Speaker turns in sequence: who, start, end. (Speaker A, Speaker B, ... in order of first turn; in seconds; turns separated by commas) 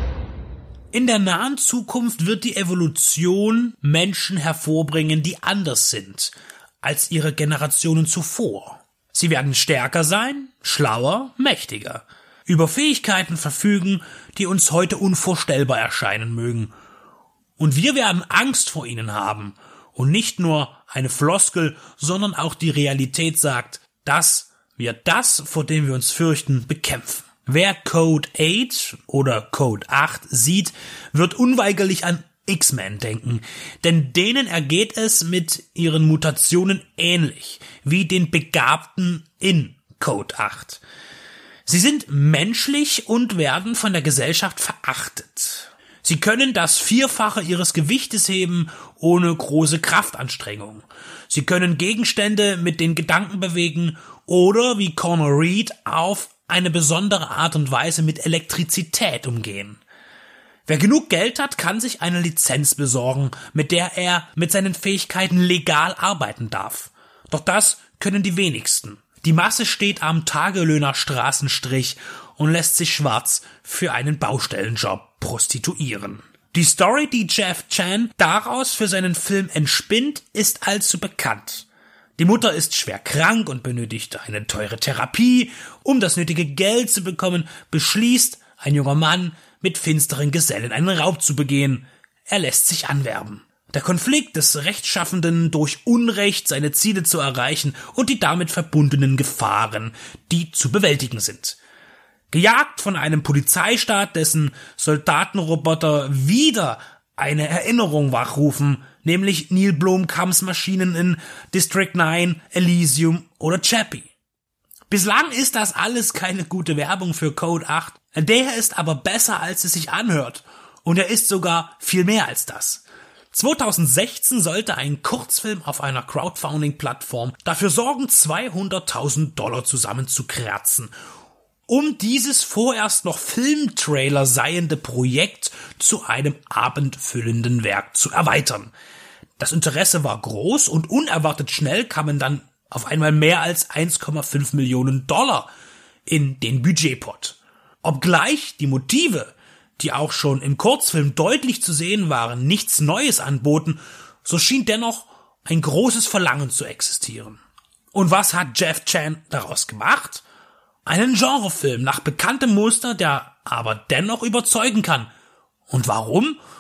Speaker A: 0.9-16.7, Speaker A: 17.6-40.8, Speaker A: 41.6-59.8, Speaker A: 60.6-101.6, Speaker A: 102.3-114.1, Speaker A: 114.9-130.9, Speaker A: 131.7-138.7, Speaker A: 139.4-145.5, Speaker A: 146.1-157.4, Speaker A: 157.9-160.2, Speaker A: 160.8-165.1, Speaker A: 165.7-166.4